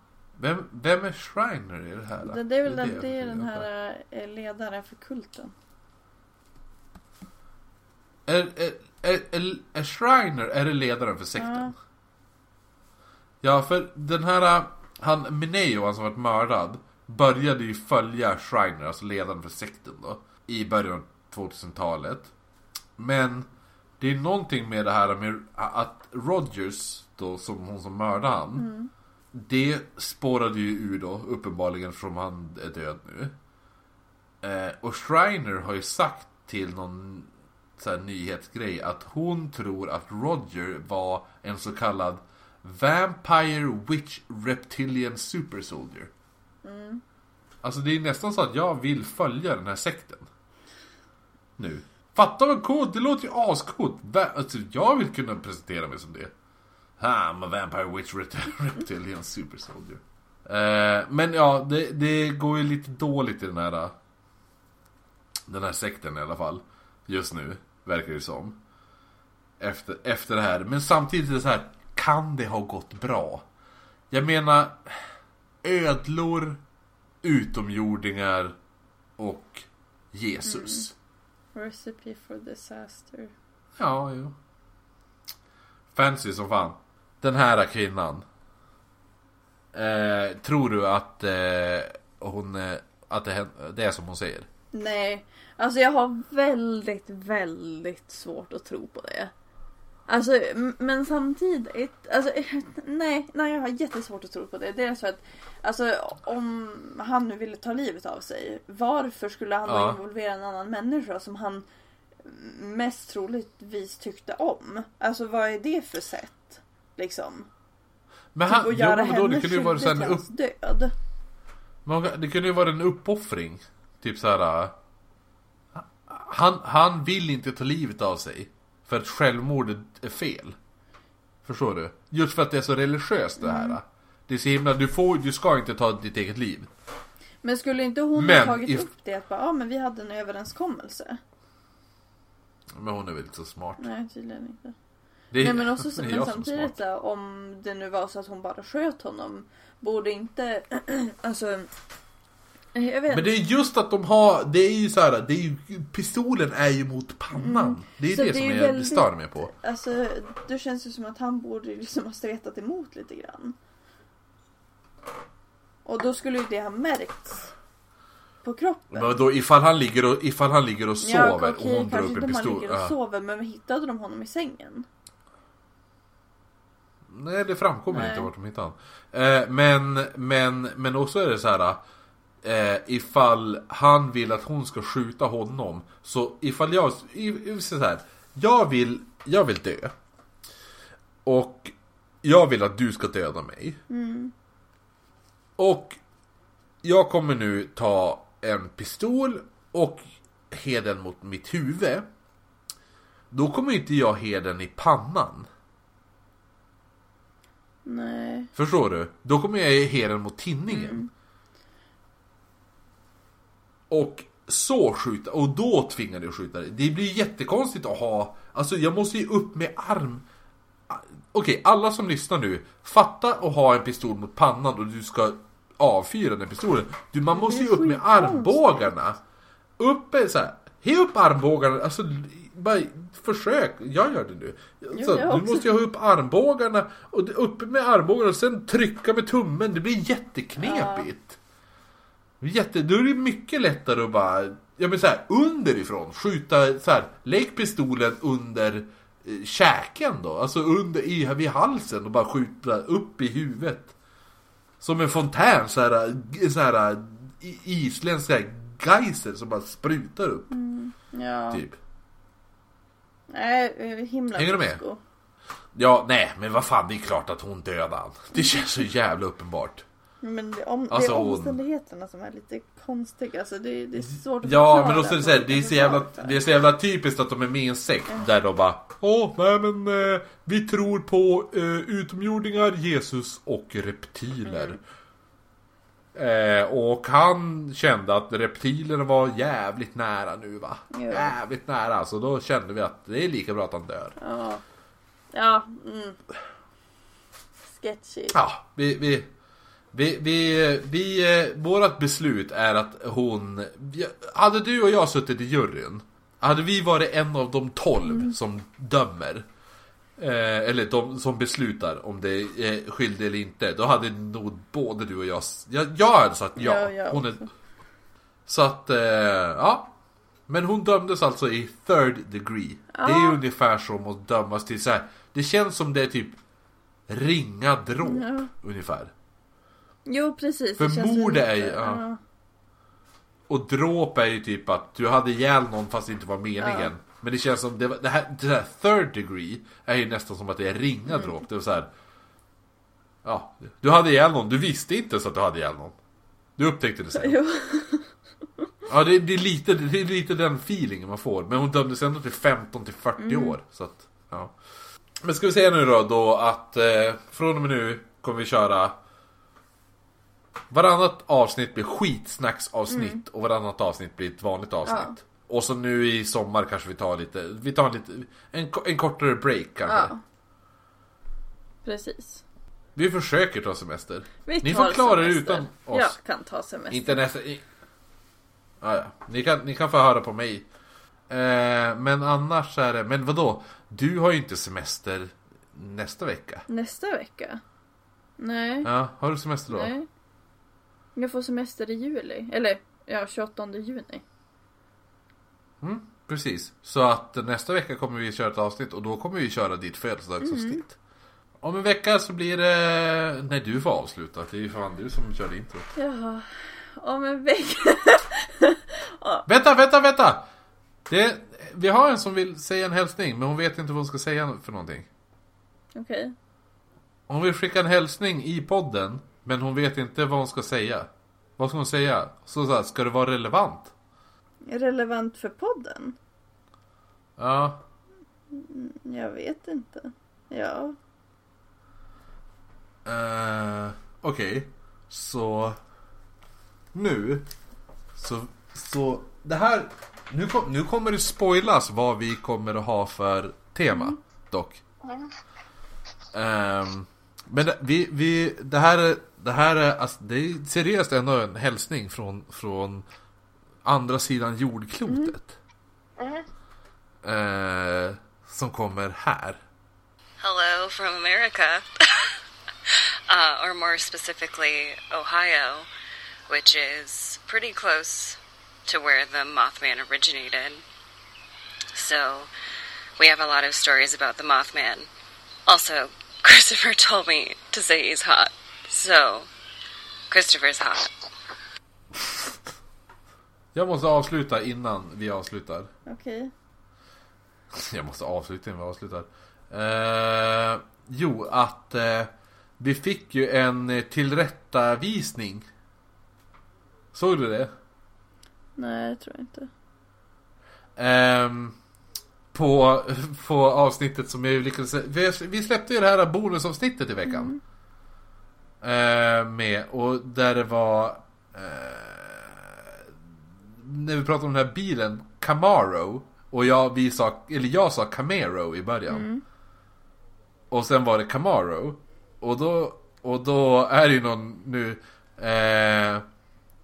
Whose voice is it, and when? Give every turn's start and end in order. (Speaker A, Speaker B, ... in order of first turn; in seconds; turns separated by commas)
Speaker A: 0.4-3.7, Speaker B: 2.2-5.5, Speaker A: 8.2-11.7, Speaker B: 11.4-11.7, Speaker A: 13.4-22.3, Speaker A: 23.0-23.5, Speaker A: 24.0-28.7, Speaker B: 28.5-28.9, Speaker A: 29.3-33.3, Speaker A: 34.4-46.1, Speaker B: 46.6-47.0, Speaker A: 47.6-50.3, Speaker A: 51.6-56.3, Speaker A: 57.0-63.9, Speaker A: 65.5-68.6, Speaker A: 69.6-73.4, Speaker A: 74.1-75.1, Speaker A: 75.6-76.6, Speaker A: 77.2-78.5, Speaker A: 79.2-80.9, Speaker B: 80.5-80.8, Speaker B: 81.5-83.3, Speaker A: 83.8-84.3, Speaker A: 85.9-88.2, Speaker A: 89.7-94.5, Speaker B: 94.7-99.3, Speaker B: 100.1-111.7, Speaker A: 109.7-110.0, Speaker B: 112.2-117.5, Speaker A: 118.3-120.2, Speaker B: 118.5-120.9, Speaker A: 121.8-124.7, Speaker A: 125.7-130.6, Speaker A: 131.4-136.7, Speaker B: 133.4-133.8, Speaker B: 137.4-141.2, Speaker A: 138.2-138.9, Speaker A: 142.7-143.9, Speaker B: 143.8-144.7, Speaker A: 145.3-146.8, Speaker B: 145.4-151.7, Speaker B: 152.7-153.3, Speaker A: 153.1-159.5, Speaker B: 157.3-163.6, Speaker B: 165.8-167.5, Speaker B: 168.4-169.2, Speaker A: 168.9-172.9, Speaker B: 171.0-174.9, Speaker A: 177.1-181.8, Speaker B: 177.9-178.3, Speaker A: 182.4-189.9, Speaker A: 191.2-193.8, Speaker B: 193.9-194.3, Speaker A: 195.6-196.0, Speaker A: 196.8-202.1, Speaker A: 203.3-205.5, Speaker B: 207.8-208.5, Speaker A: 208.5-211.0, Speaker B: 210.7-211.1, Speaker A: 213.9-220.2, Speaker A: 220.9-229.2, Speaker B: 227.3-228.9, Speaker A: 229.8-241.4, Speaker B: 234.9-235.7, Speaker B: 240.6-241.1, Speaker A: 242.4-253.9, Speaker A: 254.8-260.5, Speaker B: 260.5-261.6, Speaker A: 261.5-261.8, Speaker B: 263.3-265.0, Speaker A: 264.3-264.8, Speaker A: 265.7-269.8, Speaker B: 268.3-268.6, Speaker B: 270.2-276.4, Speaker A: 270.9-271.6, Speaker A: 274.1-284.8, Speaker B: 284.4-284.8, Speaker A: 286.1-294.1, Speaker B: 290.9-291.3, Speaker B: 294.2-294.6, Speaker B: 295.3-296.2, Speaker B: 297.7-298.4, Speaker A: 298.3-299.3, Speaker A: 299.9-309.4, Speaker B: 308.1-308.3, Speaker A: 310.2-317.4, Speaker B: 316.6-317.5, Speaker A: 318.4-319.9, Speaker A: 320.5-326.4, Speaker B: 322.9-323.4, Speaker A: 327.1-329.1, Speaker B: 328.0-328.5, Speaker B: 330.1-332.2, Speaker A: 330.8-332.0, Speaker A: 333.5-341.9, Speaker B: 336.6-336.9, Speaker B: 341.1-341.3, Speaker A: 343.2-345.9, Speaker A: 346.6-347.4, Speaker B: 347.1-348.1, Speaker A: 348.9-354.5, Speaker B: 353.2-353.6, Speaker A: 355.2-358.9, Speaker A: 360.7-370.1, Speaker B: 362.9-363.2, Speaker B: 364.8-365.1, Speaker B: 369.9-370.2, Speaker B: 371.8-372.4, Speaker A: 372.9-376.2, Speaker B: 374.4-377.2, Speaker A: 376.9-377.6, Speaker A: 378.8-380.6, Speaker A: 381.3-386.6, Speaker B: 386.7-387.6, Speaker B: 388.4-388.9, Speaker A: 388.8-389.9, Speaker B: 389.7-390.1, Speaker B: 391.1-394.2, Speaker A: 395.8-401.0, Speaker B: 400.4-400.8, Speaker A: 401.6-405.9, Speaker B: 405.9-409.4, Speaker A: 409.5-410.4, Speaker A: 411.1-415.1, Speaker B: 415.9-416.3, Speaker A: 417.3-423.9, Speaker B: 424.7-426.2, Speaker A: 427.4-427.8, Speaker B: 428.5-431.0, Speaker A: 433.0-435.8, Speaker A: 436.9-437.5, Speaker A: 438.1-444.8, Speaker A: 446.3-453.1, Speaker A: 453.8-455.6, Speaker A: 457.2-459.6, Speaker C: 460.4-465.9, Speaker C: 466.5-470.8, Speaker C: 471.9-472.5, Speaker C: 473.2-475.1, Speaker C: 475.7-479.5, Speaker C: 480.3-481.2, Speaker A: 483.7-485.9, Speaker B: 486.1-486.5, Speaker A: 487.7-495.7, Speaker A: 497.1-497.7, Speaker B: 498.8-499.7, Speaker A: 501.0-501.8, Speaker A: 502.5-507.5, Speaker B: 507.3-507.6, Speaker A: 508.8-513.0, Speaker A: 513.8-519.3, Speaker B: 519.1-519.4, Speaker A: 520.7-526.2